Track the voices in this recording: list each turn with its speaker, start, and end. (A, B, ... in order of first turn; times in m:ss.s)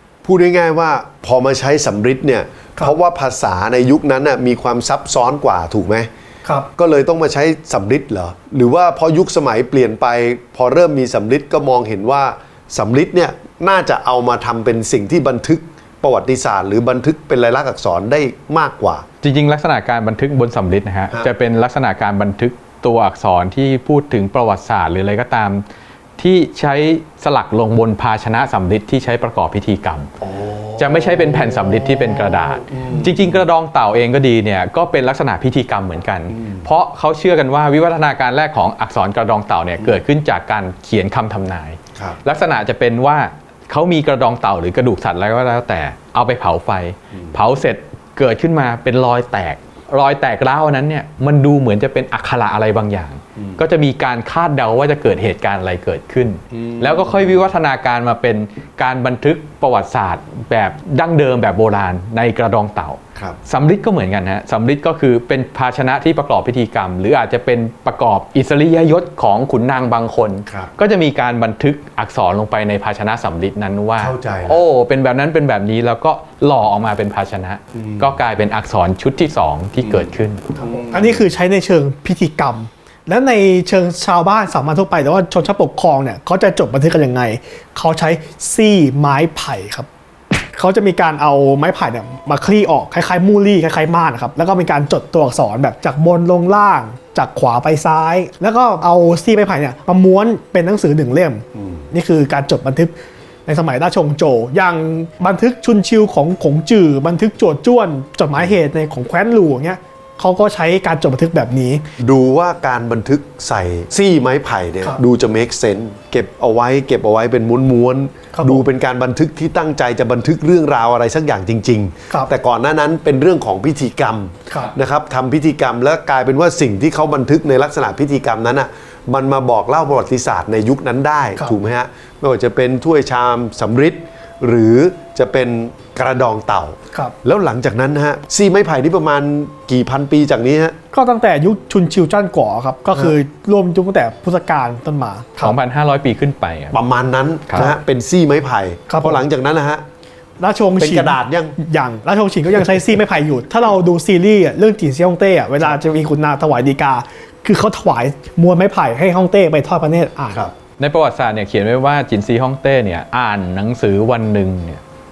0:00.2-0:06.1 A
0:06.8-0:19.0 A
0:19.2-0:25.6 B
0:26.2-0:30.1 B
0:30.2-0:33.4 A
0:30.8-1:20.4 B
0:36.3-0:36.6 A
0:56.5-0:57.4 A
1:14.0-1:14.6 A
1:17.7-1:18.1 A
1:19.8-1:21.2 A
1:20.9-1:29.9 C
1:30.5-1:42.9 C
1:41.5-1:41.9 A
1:43.5-1:51.8 C
1:52.0-2:20.8 A
1:58.3-1:58.6 C
2:04.5-2:04.7 C
2:20.9-2:25.6 C
2:25.4-2:26.8 B
2:26.7-2:29.8 A
2:27.5-2:27.8 B
2:28.9-2:29.2 C
2:30.4-2:40.4 C
2:30.8-2:31.6 A
2:40.8-2:44.8 B